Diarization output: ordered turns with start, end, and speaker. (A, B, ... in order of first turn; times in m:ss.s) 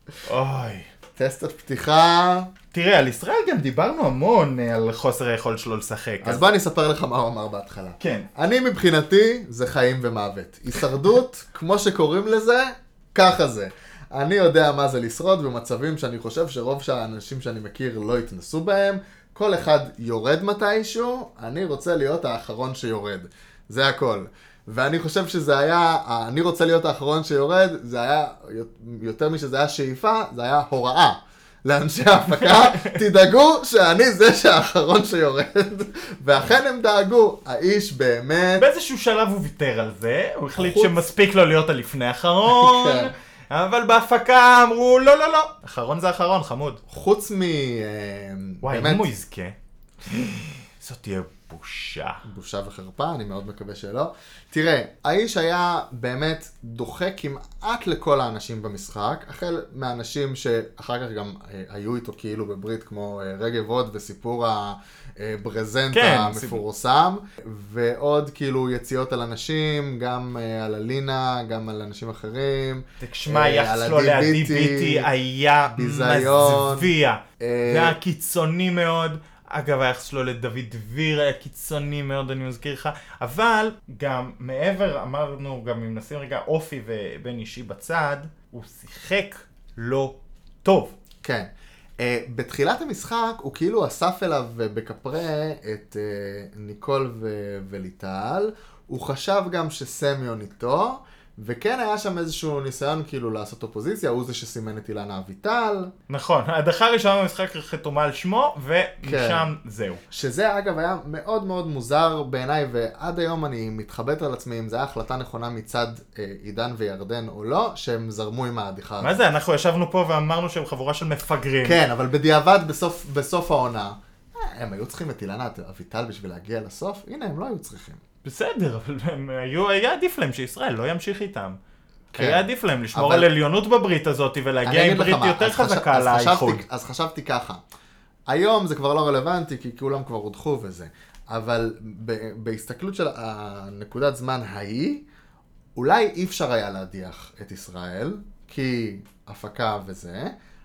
0:00.2-0:00.9 A
0:01.2-0:02.5 B
0:02.7-0:06.4 A
0:06.2-0:38.7 B
0:08.0-0:08.3 A
0:32.3-0:33.0 A
0:38.6-0:46.8 A
0:40.6-0:41.0 B
0:42.5-0:43.1 B
0:46.9-0:49.1 B
0:48.6-0:52.2 A
0:52.2-1:15.1 B
1:05.9-1:06.6 A
1:13.0-1:31.0 A
1:15.7-1:18.0 B
1:31.2-1:45.9 B
1:46.1-1:50.0 A
1:49.0-1:49.5 B
1:50.1-1:59.2 B
1:59.0-2:01.8 A
2:01.6-2:08.0 B
2:08.2-2:11.6 A
2:12.1-2:13.3 B
2:12.2-2:16.6 A
2:14.6-2:17.6 B
2:18.3-2:25.0 B
2:25.8-2:30.3 B